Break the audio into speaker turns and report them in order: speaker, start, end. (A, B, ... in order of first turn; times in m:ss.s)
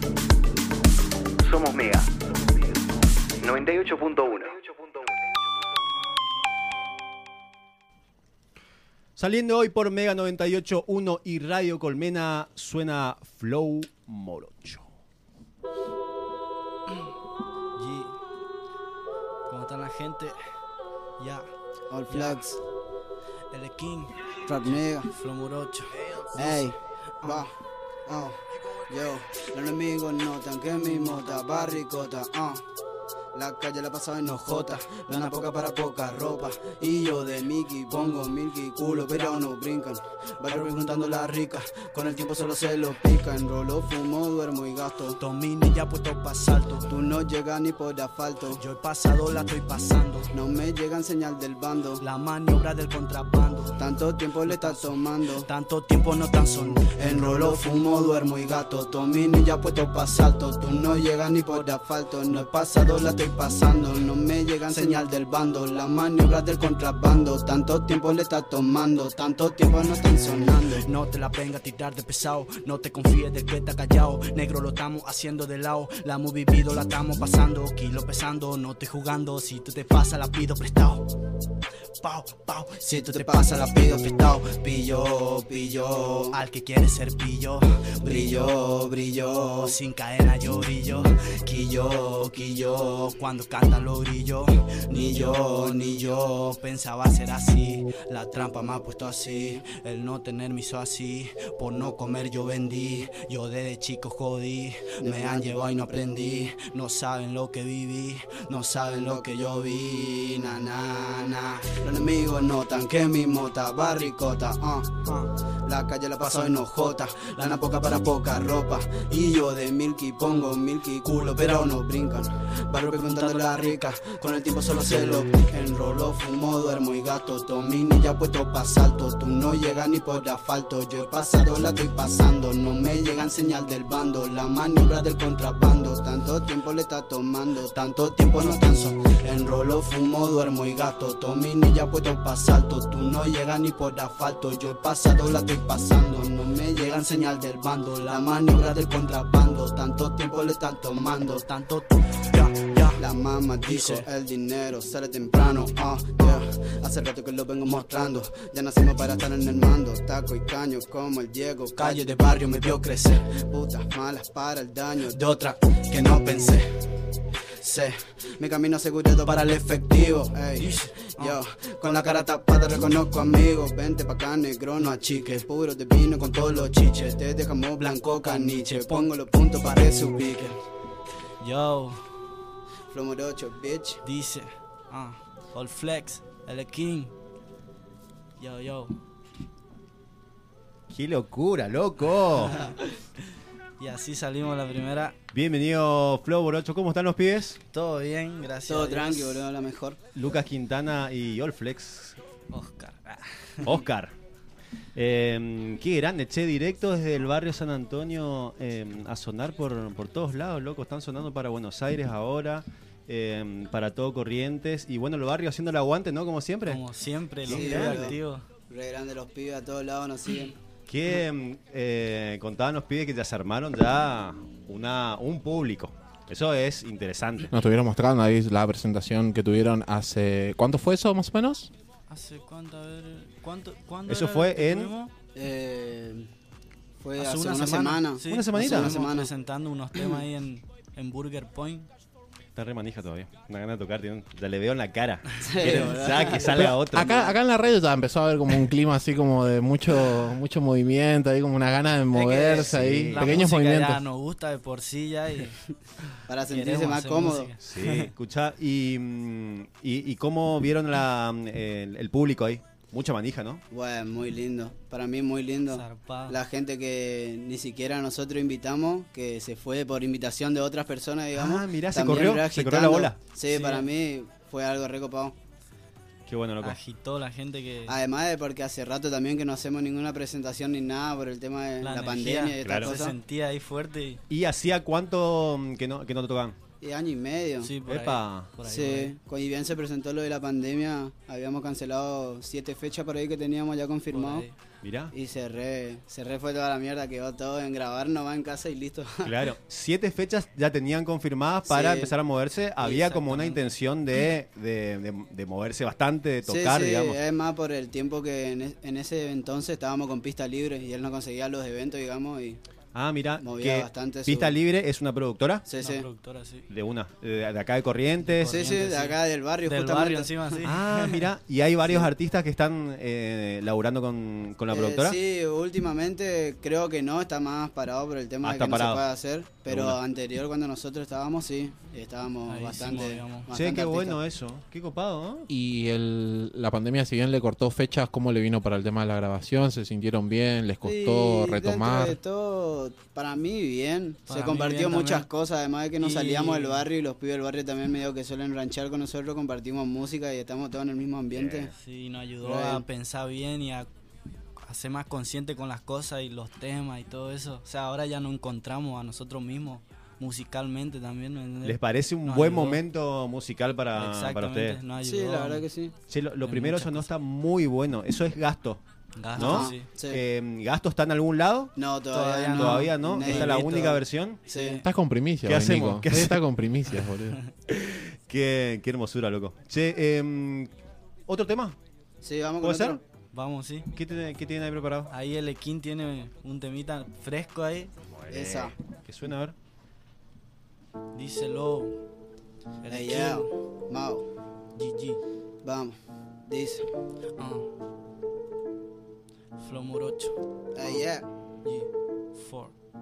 0:01.4-0:02.8 A
0:03.4-0:05.0 A
0:09.2-0:14.9 B
0:17.8-0:18.2 C
0:19.5-0:20.4 C
0:21.2-0:21.5 C
0:21.9-0:22.6 D
0:22.1-0:22.6 C
0:23.5-0:27.5 C
0:24.5-0:25.1 D
0:26.4-0:27.5 D
0:28.1-0:32.6 D
0:30.8-0:32.1 C
0:33.3-0:45.2 D
0:34.3-0:34.8 C
0:38.8-0:39.5 C
0:40.5-0:41.6 C
0:45.2-0:46.9 C
0:46.9-0:48.6 D
0:48.6-0:50.4 C
0:50.3-0:52.0 D
0:52.0-0:53.8 C
0:53.8-0:55.5 D
0:54.4-0:57.8 C
0:57.0-1:10.8 D
0:59.6-1:00.6 C
1:01.4-1:01.8 C
1:02.3-1:03.5 C
1:04.7-1:05.3 C
1:10.8-1:21.1 C
1:22.0-1:24.4 C
1:22.8-1:26.4 D
1:26.3-1:28.7 C
1:28.0-1:29.8 D
1:29.6-1:31.3 C
1:31.5-1:33.0 D
1:32.4-1:49.8 C
1:34.9-1:36.6 D
1:39.1-1:39.6 D
1:45.0-1:46.5 D
1:48.9-1:54.9 D
1:54.0-1:54.3 C
1:55.0-1:55.3 C
1:55.7-2:31.4 D
2:01.1-2:01.8 C
2:02.8-2:03.8 C
2:17.8-2:19.0 C
2:22.8-2:26.2 C
2:26.8-2:28.6 C
2:31.3-2:33.0 C
2:33.0-2:45.3 D
2:33.7-2:34.1 C
2:41.8-2:43.2 C
2:45.1-2:46.6 C
2:45.9-2:46.6 D
2:47.6-3:00.6 D
2:50.6-2:51.4 C
2:56.5-2:57.2 C
2:58.2-2:59.2 C
3:01.4-3:02.0 C
3:02.9-3:04.0 D
3:04.0-3:07.1 C
3:08.4-3:09.0 C
3:10.9-3:12.6 B
3:12.4-3:12.9 C
3:13.8-3:15.2 C
3:15.3-3:17.6 B
3:17.7-3:19.5 C
3:18.7-3:20.0 D
3:20.2-3:22.2 B
3:22.5-3:23.8 C
3:23.6-3:24.1 B
3:25.0-3:36.8 B
3:36.7-3:38.4 C
3:37.4-3:38.2 B
3:37.5-3:38.2 D
3:38.7-3:40.6 D
3:40.9-3:47.5 B
3:47.5-3:51.7 E
3:52.1-3:55.1 C
3:54.1-3:54.9 B
3:55.4-3:56.3 D
3:57.0-3:59.3 D
3:57.2-4:01.9 C
3:58.3-3:59.0 B
4:02.6-4:07.4 B
4:05.4-4:06.7 D
4:05.6-4:06.1 C
4:06.6-4:14.0 E
4:12.2-4:12.4 D
4:12.3-4:15.6 C
4:12.6-4:13.5 B
4:16.3-4:17.5 D
4:16.5-4:18.1 C
4:17.6-4:23.6 B
4:23.7-4:35.4 D
4:25.7-4:26.4 C
4:31.4-4:33.2 B
4:33.5-4:33.9 C
4:36.3-4:36.8 B
4:36.6-4:38.0 C
4:37.9-4:43.2 D
4:41.8-4:44.2 C
4:42.6-4:42.9 B
4:44.3-4:46.6 B
4:46.8-4:47.7 D
4:47.6-4:49.2 C
4:47.9-4:48.5 B
4:48.6-4:54.4 D
4:54.1-4:54.6 C
4:54.8-4:55.1 B
4:55.1-4:59.4 D
4:59.2-5:07.2 B
5:01.7-5:02.2 D
5:02.8-5:03.6 C
5:06.5-5:12.6 D
5:12.9-5:15.6 B
5:13.4-5:14.6 D
5:15.7-5:16.1 D
5:15.8-5:16.7 C
5:16.7-5:18.6 B
5:18.3-5:21.3 C
5:18.4-5:20.6 D
5:20.6-5:25.2 B
5:24.7-5:34.2 D
5:28.4-5:29.0 B
5:29.7-5:30.0 B
5:32.5-5:33.5 C
5:33.5-5:35.5 B
5:35.5-5:42.2 E
5:40.8-5:51.7 D
5:44.3-5:45.3 C
5:46.0-5:46.9 C
5:51.4-5:51.6 B
5:51.7-5:53.9 C
5:52.4-5:52.8 D
5:54.6-6:02.8 C
6:01.6-6:04.8 B
6:04.0-6:05.7 C
6:05.0-6:06.0 D
6:06.1-6:08.8 B
6:06.4-6:07.1 C
6:09.2-6:09.9 C
6:09.4-6:10.2 D
6:09.4-6:11.8 B
6:11.8-6:14.8 D
6:12.1-6:14.9 C
6:12.6-6:14.4 B
6:14.8-6:17.4 E
6:15.4-6:16.4 B
6:17.7-6:20.7 B
6:21.3-6:21.8 B
6:22.2-6:23.0 D
6:22.6-6:23.0 B
6:23.3-6:23.9 C
6:23.9-6:25.1 B
6:25.1-6:27.9 C
6:28.1-6:29.6 B
6:28.3-6:28.8 D
6:31.1-6:32.0 C
6:32.8-6:33.5 C
6:32.9-6:34.3 D
6:34.8-6:35.2 C
6:35.6-6:36.9 D
6:37.4-6:37.7 C
6:39.6-6:41.0 C
6:40.8-6:41.3 D
6:41.6-6:42.8 C